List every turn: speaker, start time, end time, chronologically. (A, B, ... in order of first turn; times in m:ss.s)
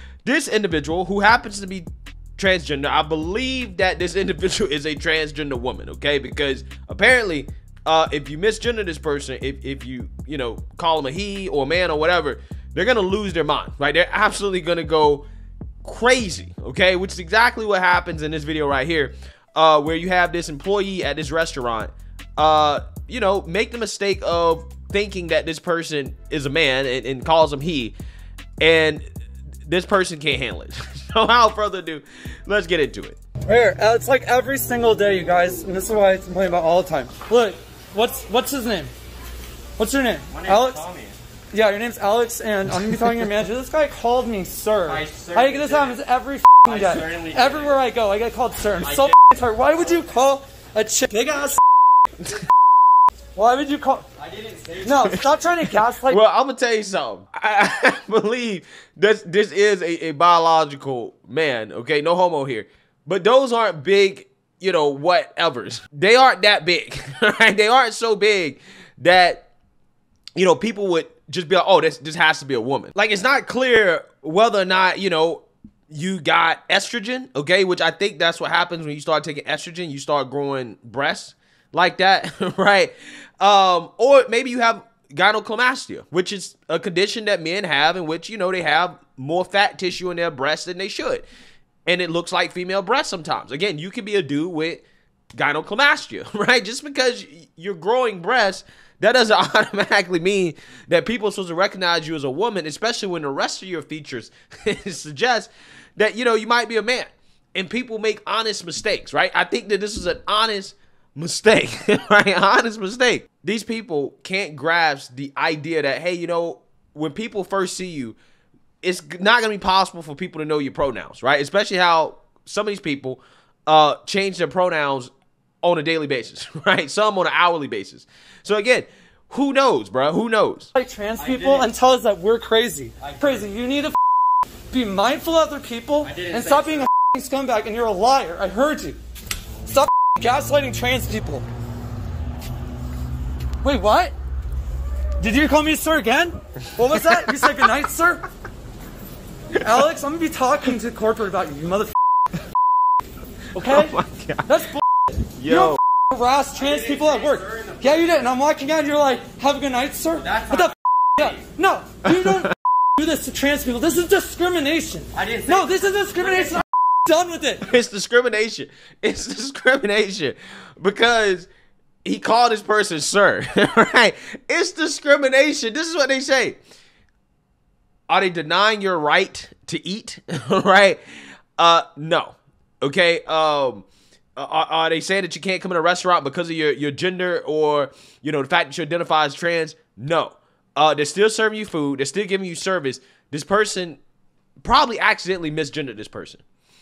0:00.2-0:01.8 A
0:02.4-0:15.2 A
0:15.8-0:27.9 A
0:28.6-0:29.0 A
0:29.6-0:33.2 A
0:33.4-0:38.9 B
0:39.8-0:40.8 B
0:40.3-0:41.2 C
0:41.5-0:51.6 B
0:44.9-0:45.9 C
0:46.7-0:47.7 C
0:53.4-0:54.0 B
0:54.3-0:54.9 C
0:54.8-0:56.2 B
0:56.0-1:09.4 A
1:10.4-1:31.3 A
1:31.8-1:34.8 A
1:35.3-1:58.2 A
1:58.8-2:10.7 A
2:10.7-2:14.0 B
2:11.2-2:11.6 C
2:14.7-2:19.0 B
2:16.1-2:16.7 C
2:19.6-2:21.4 B
2:23.6-2:24.1 B
2:25.2-2:28.2 B
2:29.5-2:31.9 B
2:33.5-2:34.5 A
2:33.5-2:34.8 B
2:35.3-2:35.8 A
2:35.4-2:47.7 B
2:36.7-2:37.9 C
2:40.3-2:40.7 C
2:42.1-2:42.5 A
2:45.2-2:45.7 C
2:47.6-2:51.5 A
2:52.0-2:56.6 A
2:58.1-3:01.0 A
3:01.6-3:14.0 A
3:14.6-3:16.4 A